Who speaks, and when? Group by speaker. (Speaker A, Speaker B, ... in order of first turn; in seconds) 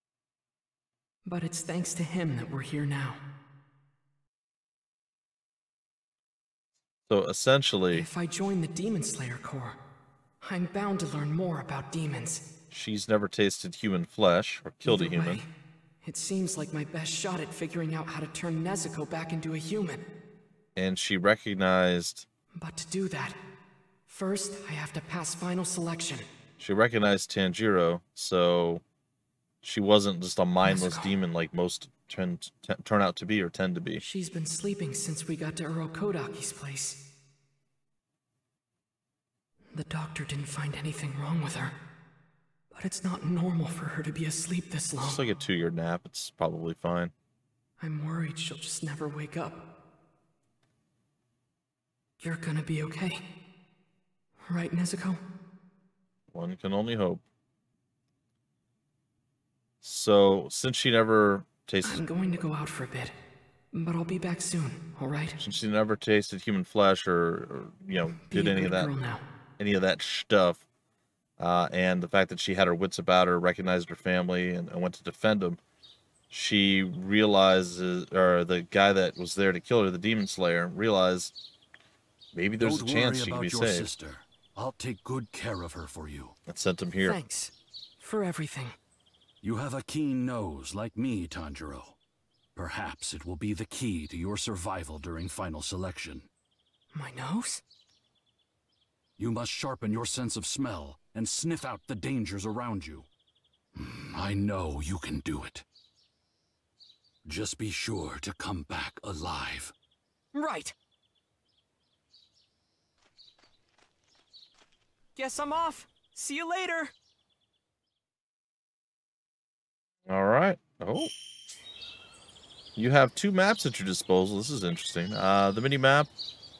Speaker A: 1.2-3.2, 7.9-9.8, 10.4-12.5, 14.8-15.5, 16.0-20.0, 22.5-23.4, 24.1-26.3, 30.6-31.1, 34.0-37.0, 39.7-41.8, 42.7-45.2, 47.8-49.7, 52.2-53.2, 54.4-55.2, 61.8-63.1, 63.7-65.4, 68.3-69.2, 87.0-88.8, 96.9-97.6, 110.3-110.8, 115.2-116.9
Speaker B: 7.1-8.1, 12.7-15.4, 20.8-22.3, 26.6-28.8, 29.6-34.0, 45.0-47.1, 56.3-57.2, 59.8-62.0, 65.4-68.9, 69.6-70.6, 71.4-75.6, 76.3-81.3, 82.3-83.9, 86.5-87.2, 120.1-121.1, 122.8-126.1
Speaker C: 82.6-86.3, 89.4-92.0, 92.5-96.3, 99.2-103.1, 103.8-105.7, 107.2-109.7